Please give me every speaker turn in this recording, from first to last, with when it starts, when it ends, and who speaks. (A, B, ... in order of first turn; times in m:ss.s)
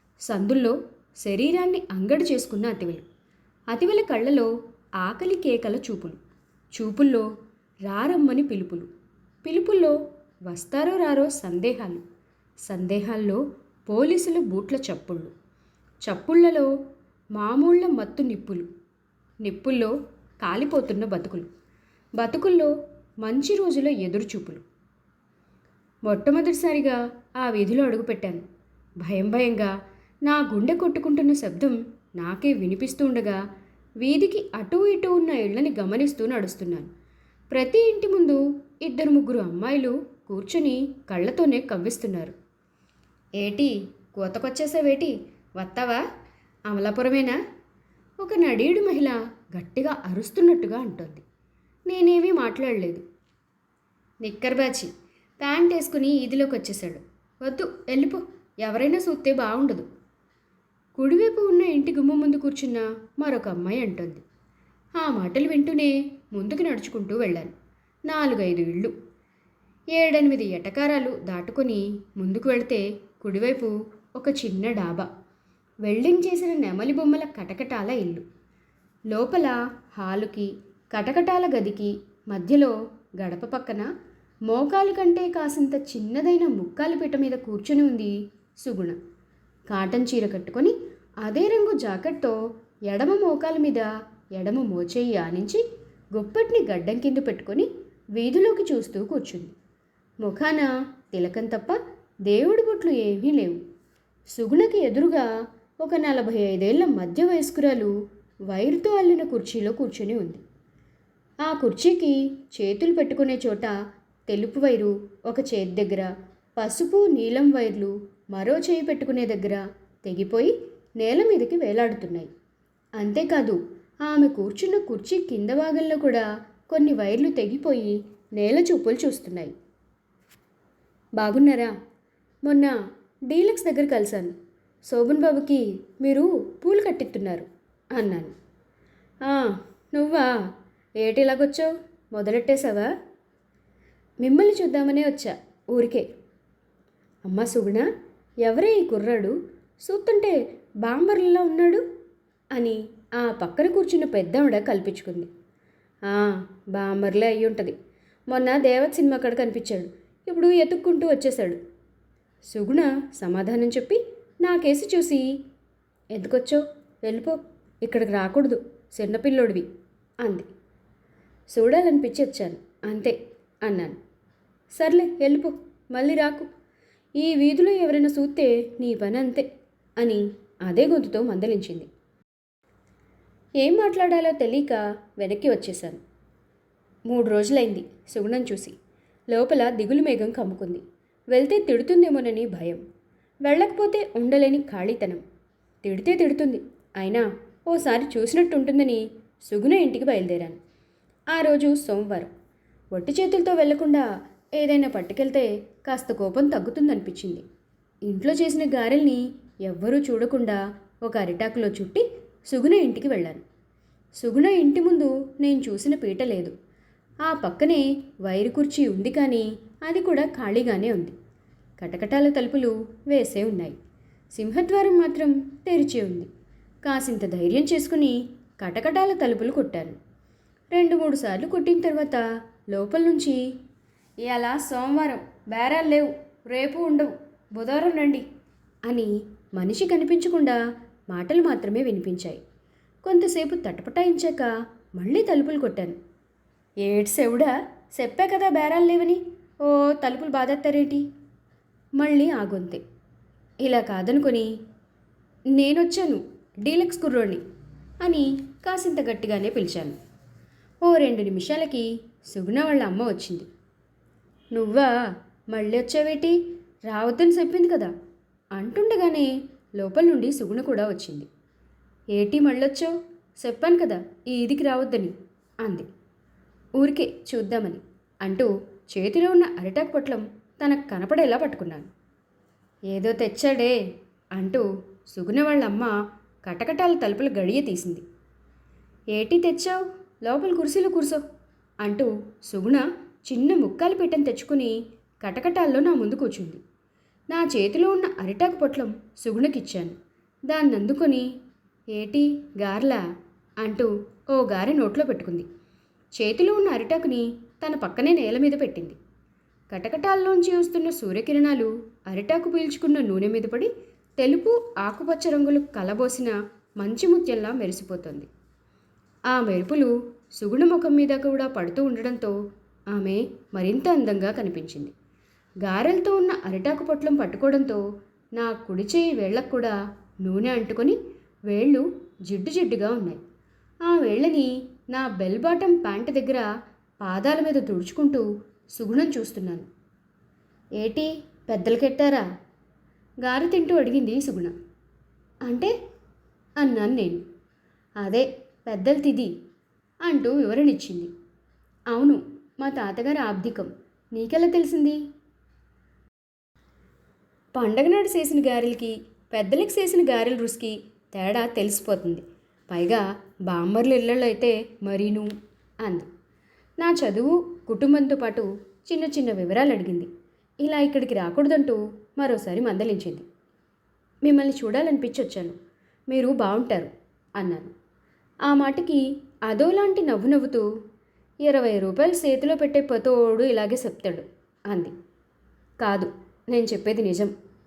0:00.2-0:03.0 A
0:03.7-0:06.2 A
0:06.7-0:07.3 A
0:07.9-0:08.9 A
0:09.4-0:12.0 A
0:12.7-0:15.3 A
0:16.0-0:16.7 A
0:17.4-0:18.7 A
0:19.4-0:21.5 A
0:22.2-0:24.6 A
0:26.1-0:28.4 A
0:29.0-0:29.7 A
0:30.2-0:33.4 A
0:34.0-0:36.9 A
0:37.5-0:42.4 A
0:43.4-0:46.0 A
0:46.7-0:47.4 A
0:48.2-0:51.2 A
0:51.9-0:53.0 A
0:54.2-0:59.9 A
1:01.0-1:04.2 A
1:05.0-1:07.5 A
1:08.1-1:08.9 A
1:10.0-1:15.1 A
1:15.8-1:18.2 A
1:19.1-1:23.9 A
1:24.5-1:29.0 A
1:29.7-1:35.6 A
1:36.1-1:39.6 A
1:40.2-1:43.6 A
1:44.3-1:45.3 A
1:45.8-1:47.9 A
1:48.5-1:50.4 A
1:51.4-1:53.8 A
1:54.3-2:02.3 A
2:03.0-2:09.5 A
2:11.2-2:11.7 A
2:12.4-2:12.8 A
2:13.3-2:14.4 A
2:14.9-2:18.3 A
2:19.2-2:20.3 A
2:21.0-2:22.9 A
2:24.2-2:26.1 A
2:27.2-2:27.9 A
2:28.4-2:31.8 A
2:32.5-2:35.3 A
2:36.1-2:37.8 A
2:38.3-2:41.6 A
2:42.5-2:45.3 A
2:46.1-2:49.6 A
2:50.2-2:50.5 A
2:51.5-2:54.0 A
2:54.7-2:56.5 A
2:57.2-2:59.5 A
3:00.0-3:01.9 A
3:03.6-3:06.0 A
3:07.1-3:08.8 A
3:09.3-3:12.8 A
3:13.4-3:15.2 A
3:15.8-3:20.6 A
3:21.3-3:22.3 A
3:22.9-3:27.4 A
3:28.0-3:33.4 A
3:34.2-3:36.5 A
3:37.2-3:41.1 A
3:41.8-3:43.8 A
3:44.3-3:46.3 A
3:46.8-3:50.0 A
3:50.7-3:53.4 A
3:54.2-3:58.2 A
3:58.9-4:02.4 A
4:03.0-4:06.0 A
4:06.8-4:11.0 A
4:12.0-4:12.8 A
4:13.6-4:14.5 A
4:15.5-4:17.4 A
4:18.0-4:20.0 A
4:20.8-4:23.5 A
4:24.5-4:24.9 A
4:25.5-4:27.9 A
4:28.5-4:31.3 A
4:32.1-4:35.9 A
4:36.8-4:41.9 A
4:42.9-4:43.8 A
4:44.4-4:45.9 A
4:46.4-4:48.0 A
4:49.1-4:51.2 A
4:51.8-4:56.6 A
4:57.3-5:00.0 A
5:00.5-5:01.3 A
5:02.0-5:03.0 A
5:03.6-5:05.5 A
5:06.2-5:09.0 A
5:09.7-5:18.3 A
5:19.3-5:22.4 A
5:22.9-5:24.9 A
5:25.6-5:27.8 A
5:28.4-5:33.2 A
5:33.8-5:36.5 A
5:37.0-5:39.7 A
5:40.8-5:42.2 A
5:43.2-5:44.5 A
5:45.4-5:45.7 A
5:46.6-5:47.2 A
5:48.0-5:49.3 A
5:50.0-5:51.1 A
5:51.9-5:55.0 A
5:57.5-6:06.1 A
6:06.8-6:10.1 A
6:10.6-6:13.2 A
6:14.2-6:15.6 A
6:16.1-6:17.7 A
6:18.5-6:20.6 A
6:21.4-6:24.9 A
6:25.8-6:27.3 A